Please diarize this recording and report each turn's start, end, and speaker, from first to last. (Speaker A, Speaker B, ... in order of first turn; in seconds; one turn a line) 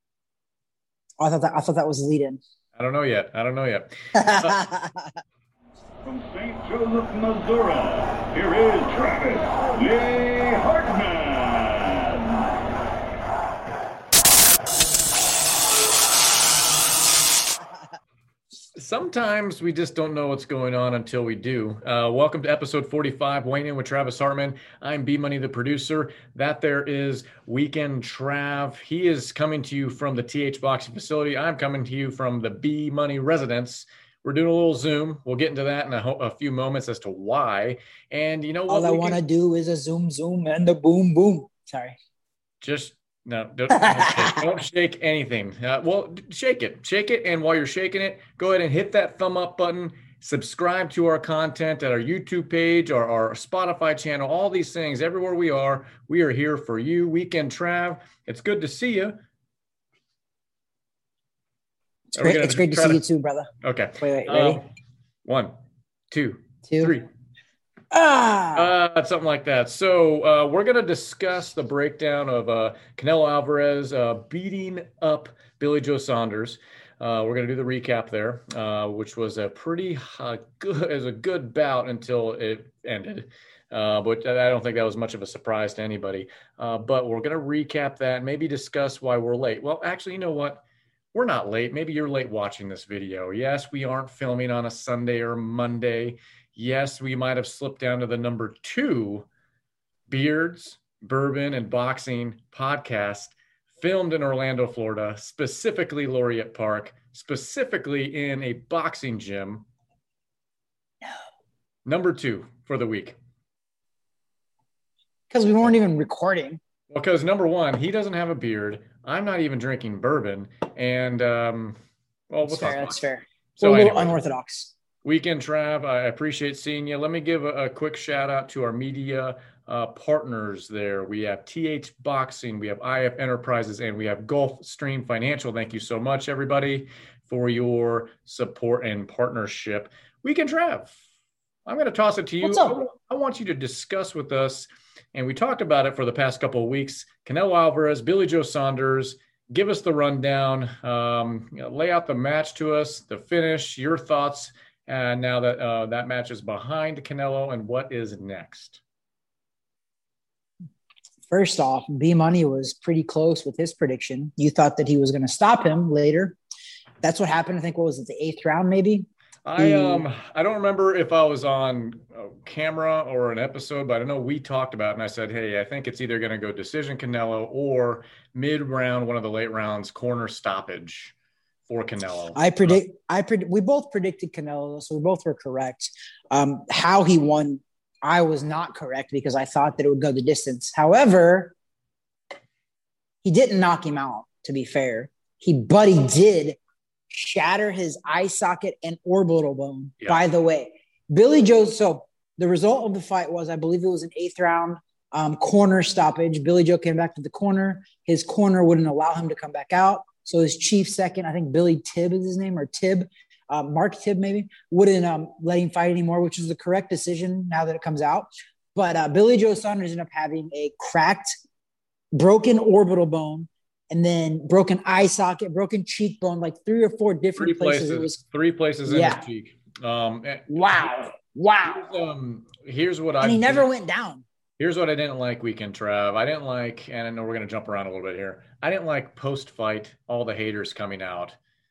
Speaker A: 1.2-2.4
Speaker B: 2.8-4.6
Speaker A: 4.1-5.2
Speaker C: 6.0-12.5
Speaker B: 18.8-39.2
Speaker A: 38.7-42.0
Speaker B: 42.6-59.2
Speaker A: 43.9-44.4
Speaker A: 62.1-64.6
Speaker B: 62.1-63.0
Speaker B: 63.6-64.6
Speaker B: 65.2-65.5
Speaker B: 66.1-67.0
Speaker A: 66.6-66.9
Speaker A: 67.9-68.7
Speaker B: 68.5-99.3
Speaker B: 100.1-109.7
Speaker B: 111.8-113.2
Speaker A: 115.3-116.6
Speaker B: 116.9-121.8
Speaker B: 122.3-123.0
Speaker A: 122.4-124.7
Speaker B: 123.6-124.2
Speaker B: 125.0-140.9
Speaker B: 141.7-158.8
Speaker A: 142.4-142.8
Speaker A: 161.3-166.4
Speaker A: 167.0-170.0
Speaker B: 169.4-181.1
Speaker B: 181.7-182.8
Speaker A: 182.3-191.5
Speaker A: 193.2-196.6
Speaker A: 197.1-221.4
Speaker A: 222.1-228.2
Speaker B: 227.4-230.9
Speaker A: 228.9-229.2
Speaker A: 230.5-231.9
Speaker B: 231.6-233.7
Speaker A: 233.2-234.2
Speaker B: 234.6-241.4